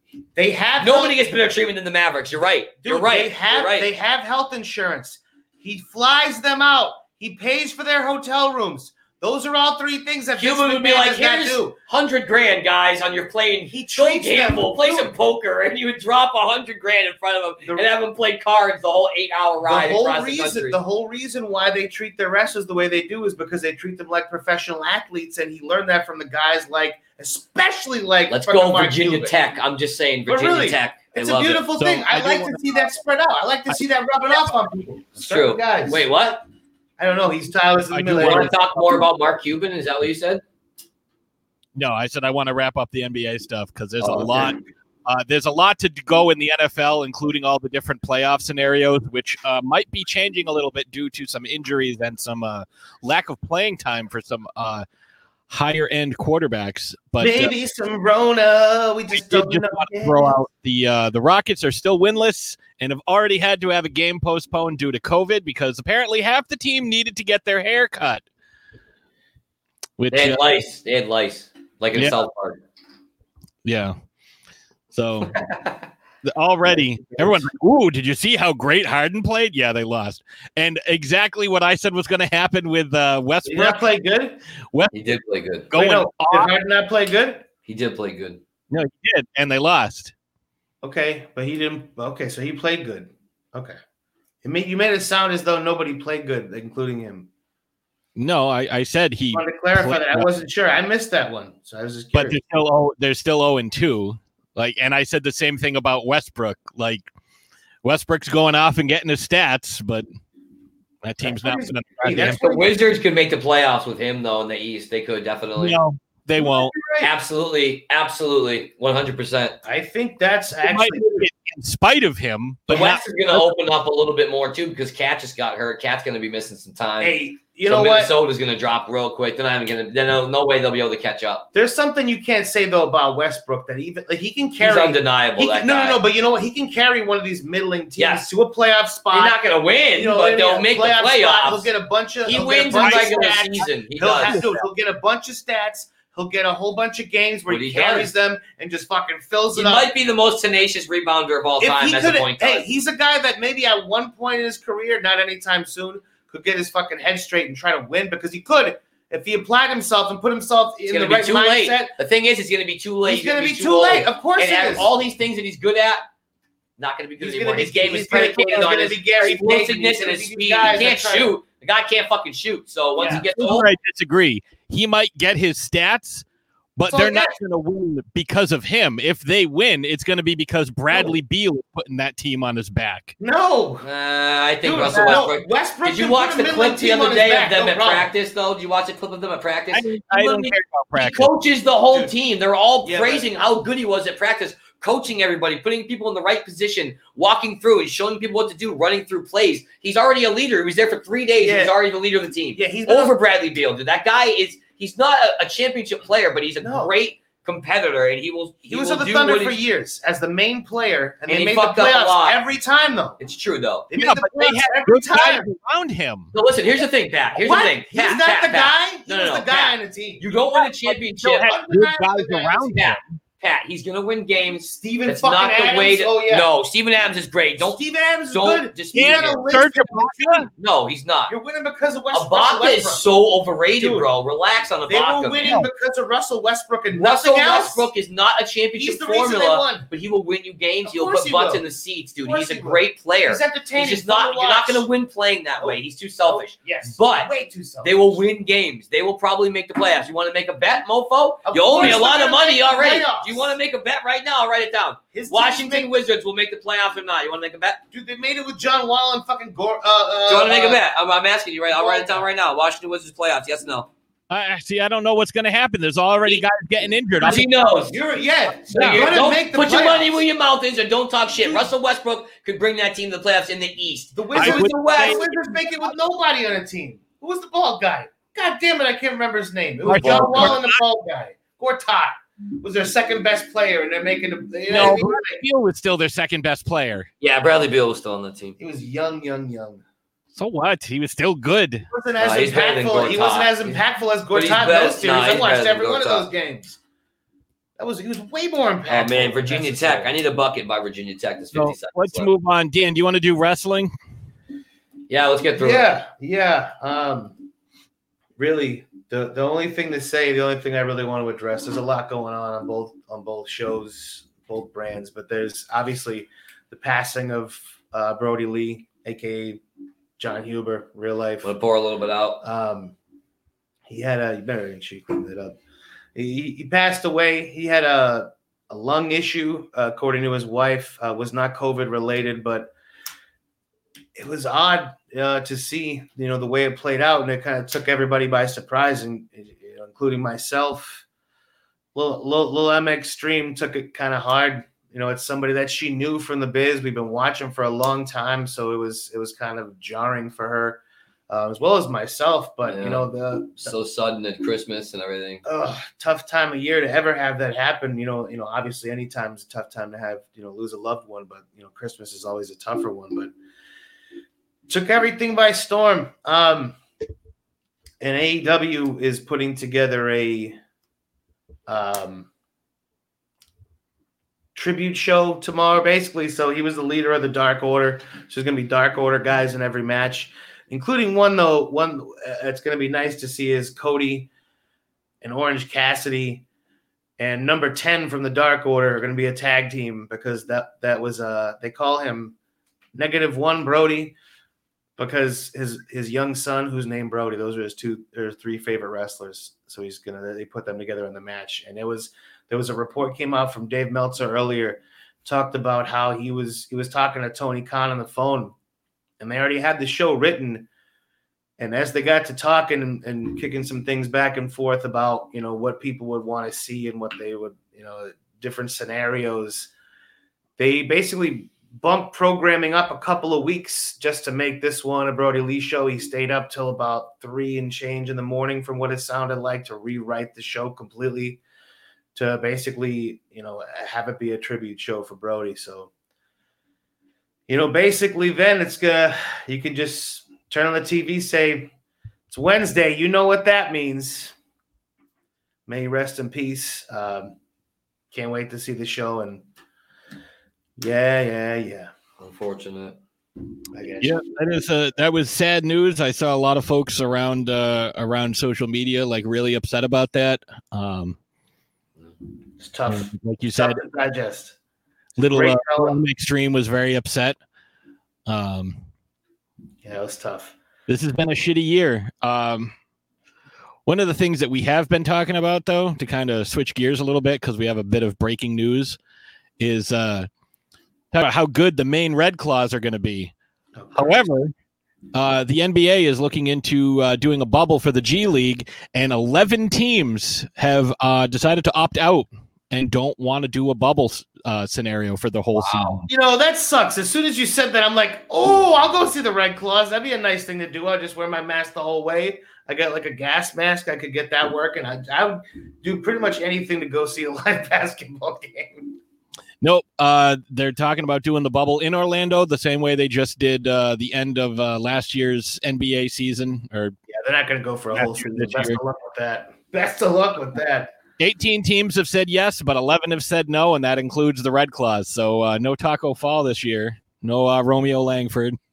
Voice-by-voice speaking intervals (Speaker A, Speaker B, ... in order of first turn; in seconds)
Speaker A: 0.3-1.2, 2.8-11.7, 13.7-15.1, 19.6-29.3, 30.3-36.1, 37.0-38.5, 44.1-44.4, 57.2-60.4, 83.5-84.4, 85.7-87.5, 90.8-93.8, 94.4-97.3, 99.3-102.4, 111.2-112.8, 116.4-117.1, 119.6-121.3, 127.0-128.1, 131.5-139.4, 139.9-149.9, 151.6-161.9, 163.1-164.9, 167.2-171.3, 173.0-173.2, 176.9-177.3, 183.2-183.8, 184.6-188.1, 192.8-193.2, 201.4-201.7, 202.6-203.1, 206.6-206.9, 208.7-213.2, 213.9-215.5, 217.4-220.2, 221.4-222.8, 224.8-226.5, 227.6-230.5, 231.3-233.1, 233.8-234.1, 234.9-237.8, 238.8-239.8, 240.8-241.6, 242.2-244.8, 245.6-248.2, 251.4-253.5, 255.1-255.9, 257.9-260.8, 261.7-262.2, 267.9-270.2, 271.4-271.7, 274.1-285.4, 288.6-289.8, 291.9-296.8, 297.8-300.1, 305.6-307.4, 308.4-319.6, 320.2-321.5, 322.4-322.9, 323.9-325.5, 326.1-332.7, 334.2-341.0, 341.9-353.7, 355.4-363.3, 364.7-366.8, 368.0-370.6, 371.7-372.3, 374.5-384.3, 385.2-386.4, 387.2-392.3, 392.9-394.2, 395.0-408.5, 409.2-410.7, 411.6-419.7, 420.6-431.4, 432.1-435.9, 437.5-441.7, 442.3-444.3, 445.7-447.3, 448.1-449.4, 450.8-451.9, 453.7-454.1, 462.6-464.5, 465.3-466.0, 469.8-470.5, 483.8-484.2, 496.1-508.9, 517.1-520.9
Speaker B: 0.8-3.9, 10.4-20.8, 28.3-31.7, 35.2-36.4, 38.1-40.4, 44.0-44.4, 70.1-72.6, 75.4-75.7, 84.9-85.7, 87.7-88.4, 112.2-115.8, 117.0-119.6, 122.7-131.5, 134.6-136.0, 138.0-138.2, 139.1-141.7, 142.2-144.4, 147.5-148.1, 149.5-152.7, 160.9-166.0, 166.8-173.7, 183.8-209.6, 211.3-212.4, 213.2-213.8, 216.3-221.5, 222.7-227.8, 228.3-229.4, 230.6-231.3, 232.1-235.5, 236.9-247.3, 247.8-257.8, 260.3-263.9, 267.2-268.0, 268.7-275.3, 279.9-280.6, 287.2-288.6, 292.2-293.8, 294.3-296.3, 298.9-302.3, 305.1-305.8, 321.4-322.4, 352.7-355.4, 452.2-453.0, 495.6-496.0
Speaker C: 31.8-32.8, 37.9-39.1, 41.8-54.8, 55.5-57.5, 59.1-68.2, 70.0-70.4, 73.6-73.9, 74.9-75.3, 76.2-83.9, 85.7-86.5, 88.7-90.1, 98.2-100.3, 102.1-107.0, 107.8-110.1, 111.0-112.4, 115.6-116.7, 120.6-123.4, 142.7-143.4, 144.2-144.6, 173.1-176.2, 176.8-183.1, 189.7-191.3, 213.9-216.3, 220.5-223.2, 228.9-230.5, 264.3-267.5, 268.7-269.1, 274.4-275.9, 279.9-280.7, 284.7-287.1, 290.3-291.9, 301.5-303.9, 454.0-461.2, 462.9-463.8, 465.2-467.4, 468.3-468.8, 470.9-472.7, 473.9-479.0, 479.6-480.3, 481.1-483.3, 483.9-484.5, 485.1-496.1, 509.6-516.9, 517.9-518.8, 521.2-528.6